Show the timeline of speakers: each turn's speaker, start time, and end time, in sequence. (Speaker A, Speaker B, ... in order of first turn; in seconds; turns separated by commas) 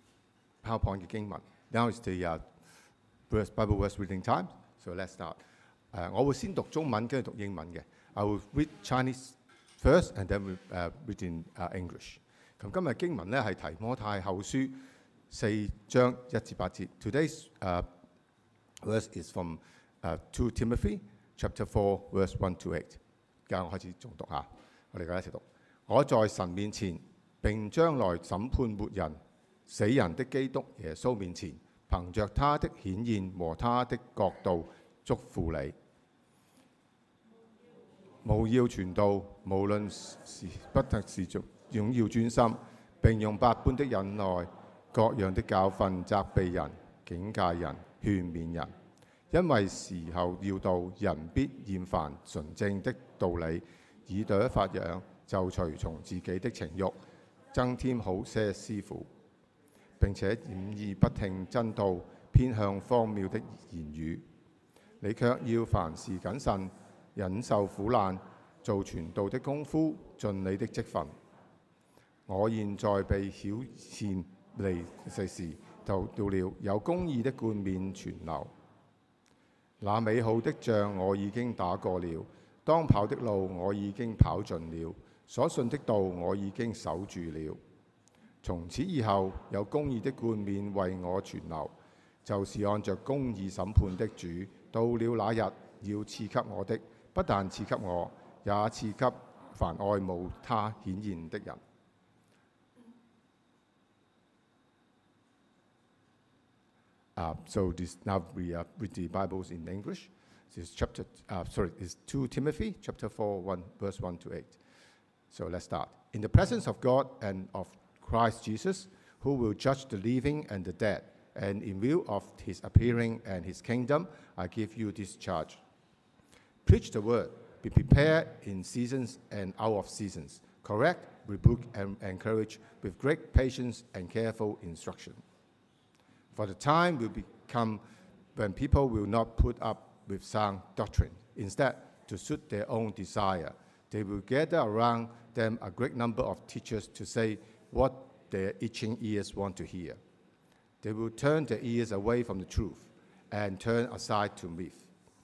Speaker A: 0.6-2.4, Speaker A: 3.3-5.4, Speaker A: 5.9-14.8, Speaker A: 15.3-17.9, Speaker A: 18.8-35.8, Speaker A: 38.2-48.7, Speaker A: 49.3-57.0, Speaker A: 57.5-59.1, Speaker A: 60.0-64.2, Speaker A: 65.0-71.1, Speaker A: 72.3-78.5, Speaker A: 79.8-87.6, Speaker A: 88.4-101.6, Speaker A: 107.2-114.6, Speaker A: 115.3-125.6, Speaker A: 126.6-135.2, Speaker A: 136.3-137.8, Speaker A: 138.3-150.0, Speaker A: 150.8-154.9